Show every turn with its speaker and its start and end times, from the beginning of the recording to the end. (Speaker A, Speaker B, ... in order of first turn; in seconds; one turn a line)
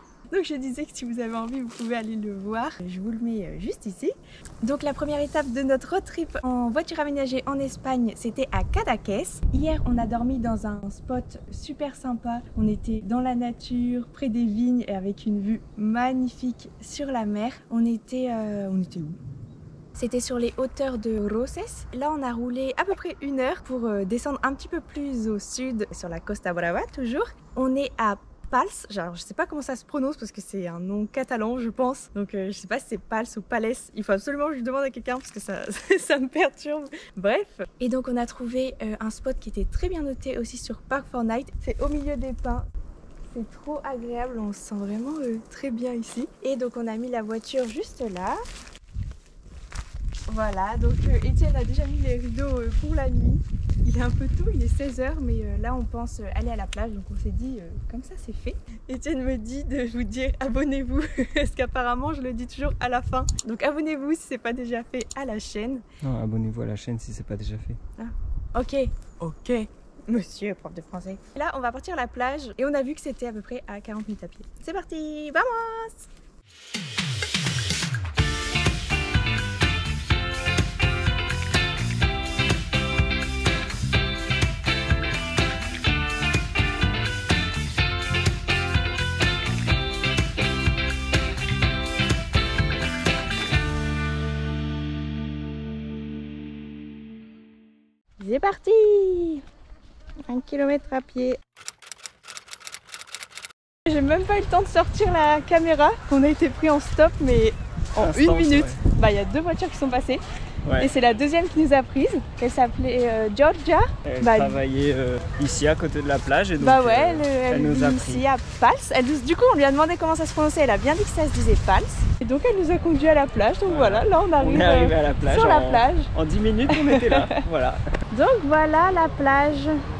Speaker A: 0.3-19.2
Speaker A: 19.9-42.6
Speaker A: 43.3-48.4
Speaker A: 50.3-65.8
Speaker B: 66.0-67.8
Speaker A: 68.0-76.1
Speaker A: 98.2-99.4
Speaker A: 100.3-101.4
Speaker A: 103.8-110.2
Speaker B: 108.0-108.8
Speaker B: 110.6-110.9
Speaker A: 110.8-114.6
Speaker B: 114.0-118.2
Speaker A: 116.6-126.1
Speaker B: 123.7-127.8
Speaker A: 126.7-127.4
Speaker A: 128.1-129.8